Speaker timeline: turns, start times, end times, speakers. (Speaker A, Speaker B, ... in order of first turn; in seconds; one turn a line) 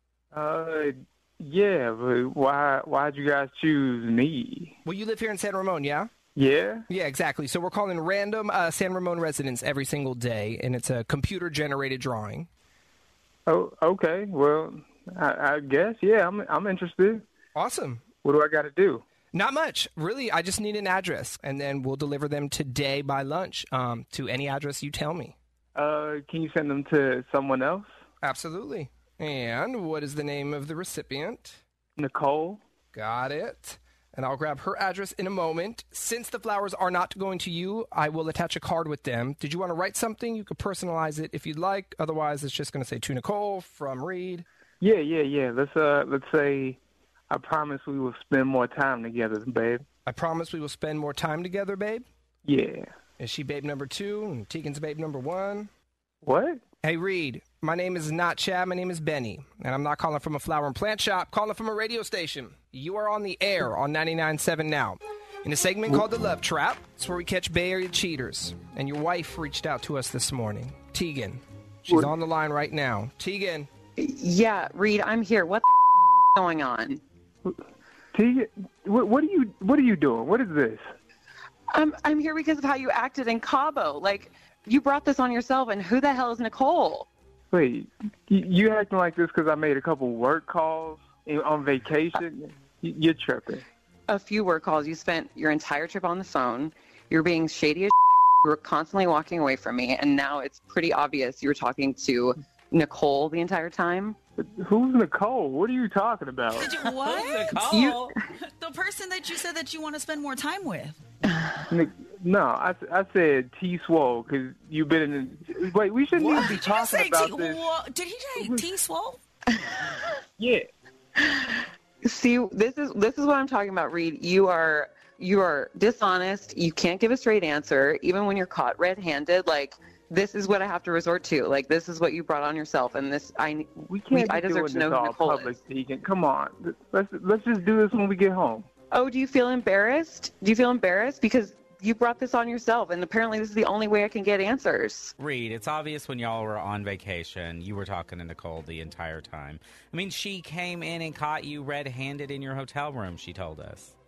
Speaker A: 0.3-4.8
Speaker B: 4.8-6.1
Speaker A: 6.4-6.8
Speaker B: 6.9-12.5
Speaker A: 13.5-17.3
Speaker B: 17.6-18.1
Speaker A: 18.2-19.0
Speaker B: 19.3-25.4
Speaker A: 25.8-27.9
Speaker B: 28.2-31.6
Speaker A: 32.0-32.6
Speaker B: 32.9-44.5
Speaker A: 44.8-46.8
Speaker A: 47.3-49.8
Speaker B: 50.1-52.1
Speaker A: 52.5-52.9
Speaker B: 53.2-55.7
Speaker A: 56.2-56.6
Speaker B: 56.8-73.7
Speaker C: 74.0-77.0
Speaker A: 78.1-80.8
Speaker C: 81.7-87.1
Speaker A: 87.5-93.6
Speaker C: 94.1-104.2
Speaker A: 104.4-106.7
Speaker D: 106.5-107.7
Speaker E: 106.9-108.1
Speaker C: 107.7-108.1
Speaker D: 108.4-111.0
Speaker A: 111.7-117.6
Speaker D: 116.2-119.2
Speaker A: 120.4-120.7
Speaker C: 121.2-135.6
Speaker A: 133.8-138.7
Speaker C: 138.9-145.1
Speaker E: 145.2-153.9